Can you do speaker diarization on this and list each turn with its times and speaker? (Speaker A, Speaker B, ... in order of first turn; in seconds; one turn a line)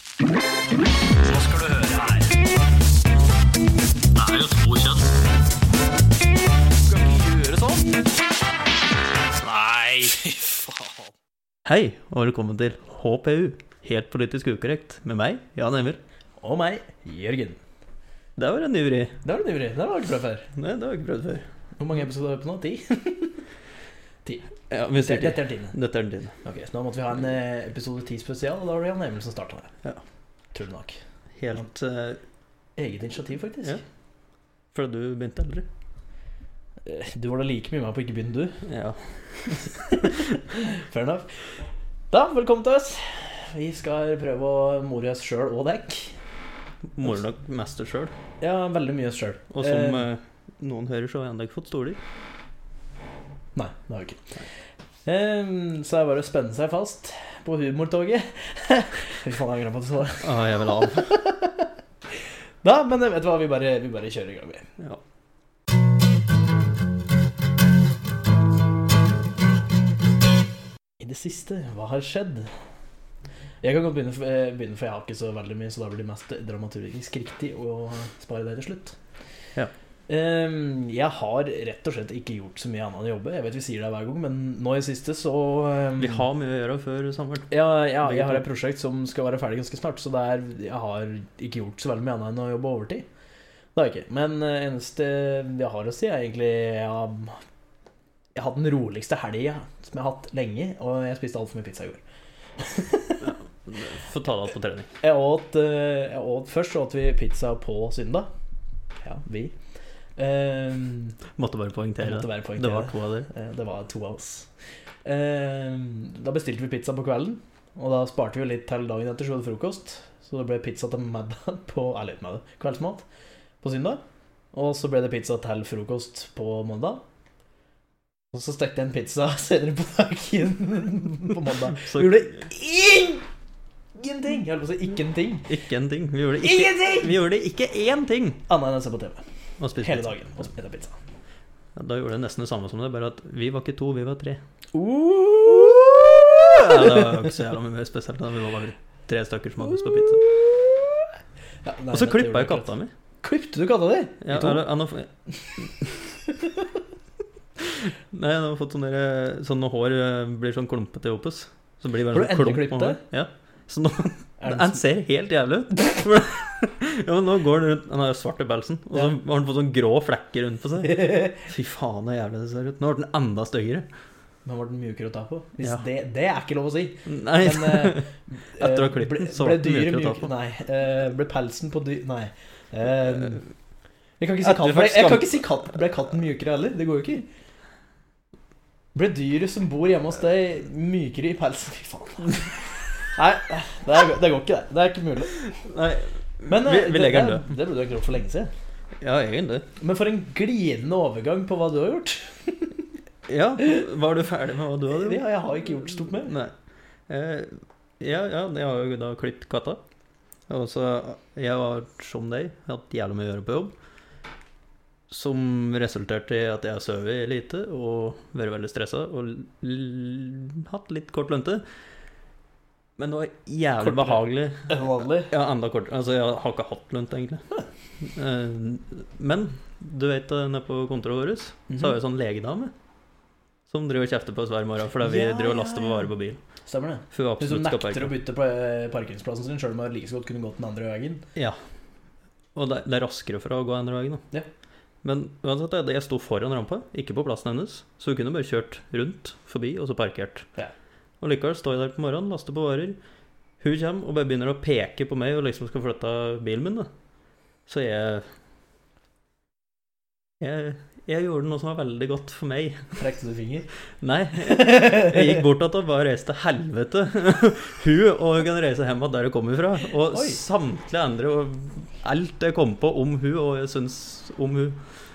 Speaker A: 1.2-2.4
Speaker A: 4.2-5.0
Speaker A: 6.8-8.0
Speaker A: 9.3-11.1
Speaker B: 11.7-16.0
Speaker A: 16.4-17.6
Speaker B: 18.4-19.2
Speaker A: 19.2-20.5
Speaker B: 20.5-21.5
Speaker A: 21.8-23.4
Speaker A: 24.2-25.8
Speaker B: 24.7-26.4
Speaker A: 26.4-29.7
Speaker A: 30.5-31.0
Speaker B: 31.4-32.2
Speaker A: 32.8-33.8
Speaker B: 34.7-35.7
Speaker A: 36.8-38.6
Speaker B: 38.6-40.5
Speaker A: 39.7-41.5
Speaker A: 42.1-46.2
Speaker B: 46.9-48.1
Speaker A: 48.4-50.0
Speaker B: 49.5-52.0
Speaker A: 53.5-54.4
Speaker A: 55.0-64.7
Speaker B: 60.2-61.1
Speaker A: 71.0-72.5
Speaker A: 73.6-79.0
Speaker A: 80.1-86.3
Speaker B: 86.0-88.4
Speaker A: 87.5-93.1
Speaker A: 93.8-97.4
Speaker A: 98.3-102.0
Speaker A: 102.6-103.3
Speaker B: 103.2-104.9
Speaker A: 105.0-108.3
Speaker A: 109.0-109.6
Speaker A: 110.2-111.2
Speaker B: 111.4-113.3
Speaker A: 112.0-114.5
Speaker A: 115.0-123.1
Speaker A: 123.6-124.0
Speaker A: 124.5-127.0
Speaker A: 128.3-133.2
Speaker B: 131.7-132.4
Speaker A: 133.9-135.5
Speaker B: 135.5-138.4
Speaker A: 136.4-137.2
Speaker A: 138.5-139.2
Speaker B: 139.6-140.2
Speaker A: 139.8-141.0
Speaker B: 141.8-144.4
Speaker A: 144.7-147.4
Speaker B: 146.2-150.3
Speaker A: 149.6-151.1
Speaker A: 151.6-154.7
Speaker B: 151.9-152.9
Speaker B: 154.2-156.0
Speaker A: 156.1-156.8
Speaker B: 157.6-173.9
Speaker A: 162.1-163.0
Speaker A: 164.4-164.8
Speaker A: 170.8-171.4
Speaker A: 174.4-183.4
Speaker B: 177.1-180.3
Speaker B: 183.1-183.4
Speaker A: 184.2-187.2
Speaker B: 184.4-185.5
Speaker A: 188.9-195.4
Speaker B: 195.4-197.5
Speaker A: 196.5-198.5
Speaker B: 199.0-199.7
Speaker A: 199.8-202.9
Speaker B: 203.3-206.5
Speaker A: 203.6-203.8
Speaker A: 204.9-206.3
Speaker B: 207.1-209.8
Speaker B: 210.5-213.8
Speaker B: 215.1-221.6
Speaker B: 223.0-232.7
Speaker A: 223.8-225.3
Speaker A: 231.7-232.0
Speaker B: 233.7-236.4
Speaker A: 235.0-236.1
Speaker A: 236.7-241.2
Speaker B: 237.1-238.2
Speaker B: 242.6-244.2
Speaker B: 245.0-250.5
Speaker B: 251.2-253.0
Speaker B: 253.6-256.9
Speaker B: 257.7-258.3
Speaker B: 260.4-263.0
Speaker A: 263.0-263.7
Speaker B: 264.0-274.8
Speaker A: 264.4-265.4
Speaker A: 270.1-270.4